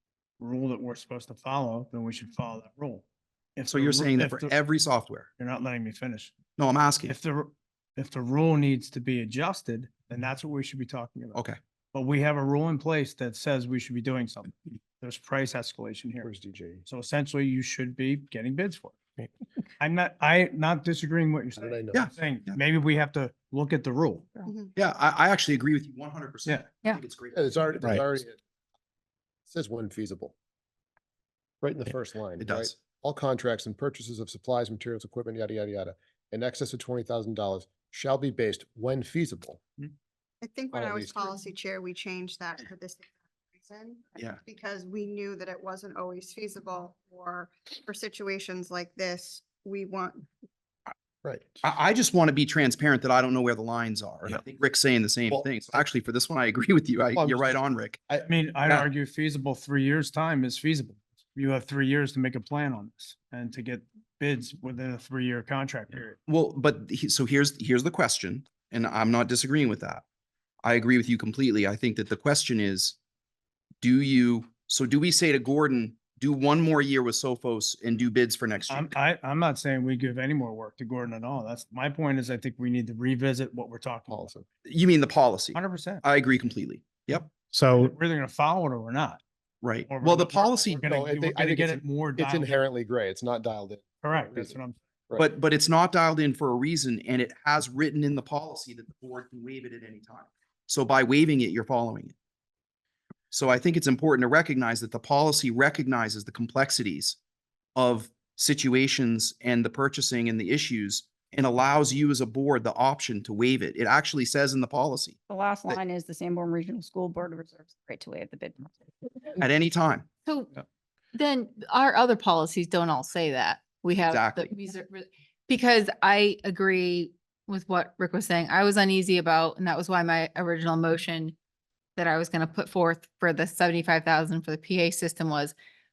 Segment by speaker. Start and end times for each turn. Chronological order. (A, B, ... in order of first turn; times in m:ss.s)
0:00.4-0:03.0 A
0:03.6-0:04.6 A
0:03.7-0:05.3 B
0:05.4-0:06.3 A
0:06.6-0:07.2 B
0:07.1-0:11.4 A
0:11.9-0:16.3 A
0:16.2-0:16.8 C
0:16.8-0:19.0 A
0:19.8-0:24.5 A
0:21.6-0:22.1 C
0:21.9-0:22.6 B
0:24.8-0:28.1 B
0:27.3-0:28.4 C
0:29.5-0:30.3 C
0:31.6-0:39.6 C
0:32.4-0:32.7 B
0:40.4-0:50.3 D
0:40.7-0:41.4 C
0:51.2-0:51.6 C
0:51.6-0:58.0 B
0:55.3-0:55.8 C
0:57.2-0:58.2 C
0:58.2-1:06.2 A
1:06.3-1:10.0 B
1:10.6-1:13.0 B
1:13.8-1:19.0 B
1:18.7-1:24.3 A
1:24.1-1:24.4 C
1:24.6-1:27.3 B
1:25.5-1:26.0 A
1:27.5-1:29.2 A
1:29.6-1:30.9 B
1:29.9-1:32.6 A
1:30.8-1:34.6 C
1:34.0-1:34.8 A
1:35.2-1:42.1 B
1:43.3-1:47.2 B
1:47.8-1:55.8 B
1:55.3-1:58.7 E
1:59.4-2:00.1 B
2:00.2-2:00.6 F
2:01.1-2:11.3 F
2:04.1-2:04.5 B
2:12.0-2:15.5 F